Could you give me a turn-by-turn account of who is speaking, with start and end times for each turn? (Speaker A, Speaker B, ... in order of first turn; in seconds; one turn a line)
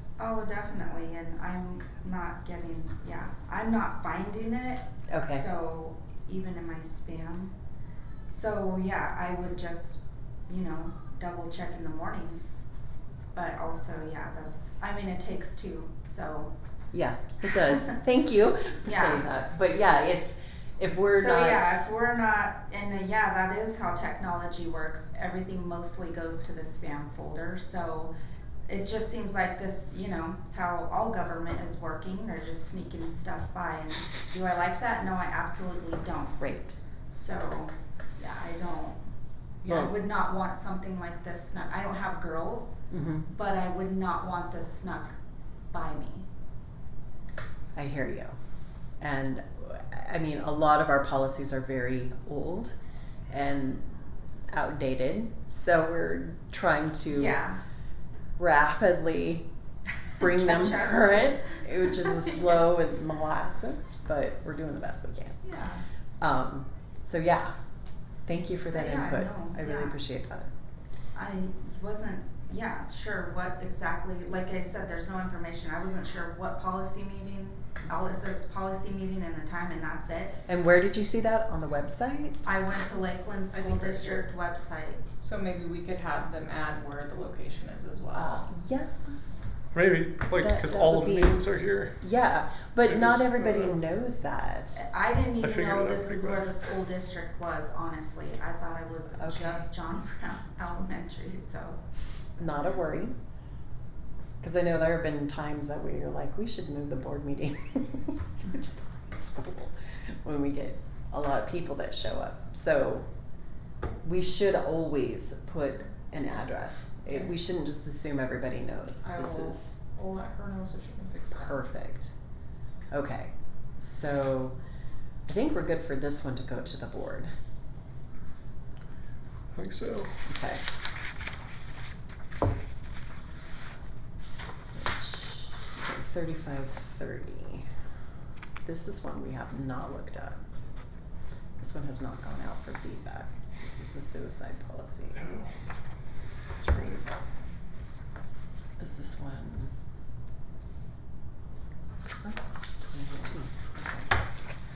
Speaker A: 0.2-7.5
Speaker B: 5.1-5.5
Speaker A: 8.3-12.4
Speaker A: 13.3-16.5
Speaker B: 16.9-21.9
Speaker A: 17.5-17.8
Speaker A: 18.9-19.3
Speaker A: 21.1-28.1
Speaker A: 28.7-39.0
Speaker B: 36.4-36.8
Speaker A: 39.6-42.8
Speaker B: 39.6-40.0
Speaker B: 42.9-43.3
Speaker A: 43.3-45.1
Speaker A: 45.7-46.3
Speaker B: 47.8-48.4
Speaker B: 49.0-52.7
Speaker B: 53.3-53.9
Speaker B: 54.5-57.4
Speaker A: 57.1-57.6
Speaker B: 58.4-59.5
Speaker B: 60.2-65.4
Speaker A: 60.2-61.6
Speaker A: 65.4-65.8
Speaker B: 66.2-67.5
Speaker B: 68.3-70.5
Speaker A: 68.7-70.0
Speaker A: 71.1-80.4
Speaker B: 80.5-82.5
Speaker A: 82.5-85.1
Speaker C: 83.5-84.2
Speaker C: 85.2-88.5
Speaker B: 88.1-89.2
Speaker D: 89.7-92.0
Speaker B: 90.4-91.4
Speaker B: 92.0-94.8
Speaker D: 92.8-93.8
Speaker A: 94.8-101.8
Speaker D: 95.4-96.5
Speaker B: 99.2-99.7
Speaker B: 102.4-103.2
Speaker B: 104.4-113.1
Speaker B: 114.0-119.8
Speaker C: 119.0-121.6
Speaker B: 121.3-122.1
Speaker B: 122.9-124.5
Speaker B: 125.3-127.3
Speaker D: 129.5-130.1
Speaker B: 130.3-130.7
Speaker B: 134.7-137.7
Speaker B: 138.7-140.4
Speaker B: 141.6-145.2
Speaker D: 145.2-145.5
Speaker D: 146.6-147.1
Speaker B: 148.8-149.7
Speaker B: 152.2-154.1